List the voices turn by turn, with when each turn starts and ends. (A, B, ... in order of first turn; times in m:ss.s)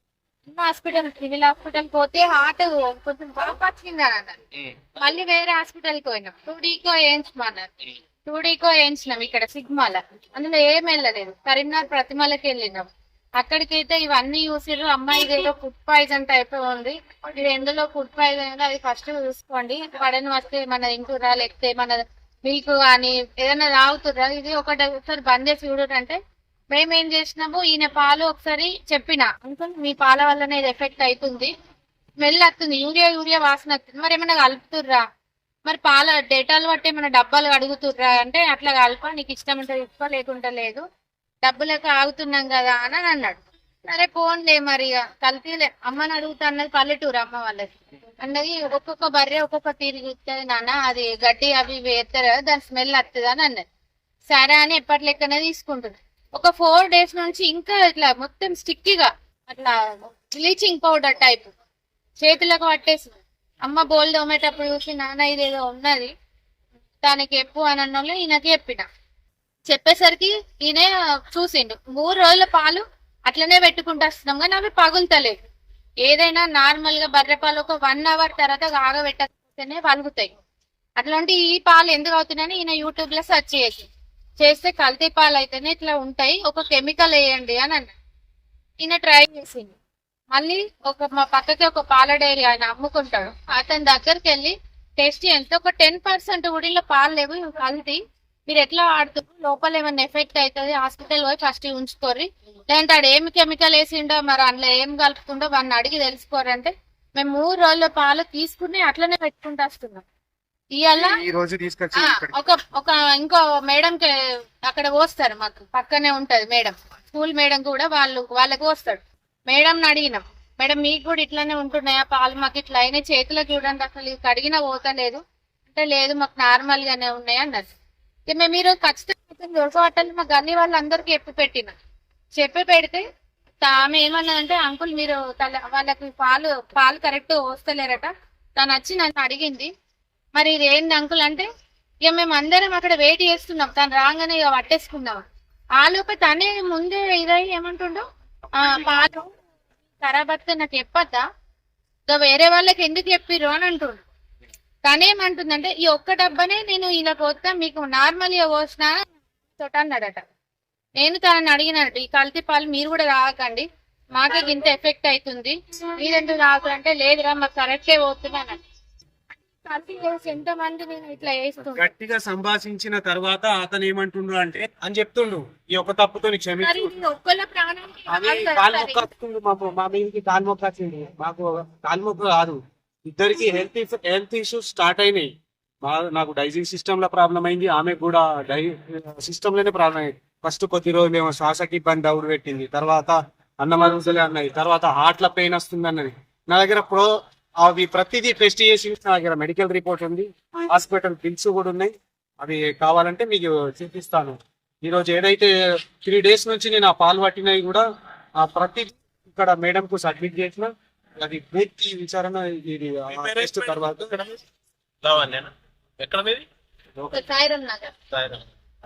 0:00.5-0:04.4 A
0:05.0-0:07.7 A
0:08.2-0:26.2 A
0:26.7-0:31.5 A
0:32.2-0:35.0 A
0:35.6-0:40.8 A
0:41.4-0:53.6 A
0:54.3-1:01.5 A
1:02.2-1:06.1 A
1:07.0-1:08.8 A
1:09.7-1:15.4 A
1:16.0-1:20.3 A
1:21.0-1:23.9 A
1:24.4-1:27.9 A
1:28.8-1:29.7 A
1:30.3-1:50.0 A
1:50.7-1:51.2 A
1:50.9-1:52.3 B
1:51.9-1:54.1 A
1:54.6-2:07.7 A
2:08.3-2:11.7 A
2:12.4-2:13.0 A
2:13.6-2:19.7 A
2:20.4-2:21.5 A
2:22.0-2:25.2 A
2:25.8-2:28.0 A
2:28.6-2:29.3 A
2:30.0-2:31.2 A
2:32.1-2:34.0 A
2:34.8-2:39.0 A
2:39.5-2:40.2 A
2:41.0-2:48.6 A
2:49.6-2:51.8 A
2:51.7-2:56.9 B
2:56.6-2:59.0 A
2:58.1-3:05.3 B
3:05.8-3:17.1 B
3:17.6-3:25.5 B
3:26.0-3:27.8 B
3:28.4-3:34.2 B
3:33.1-3:34.4 C
3:35.0-3:36.4 C
3:37.1-3:37.9 A
3:38.1-3:38.4 C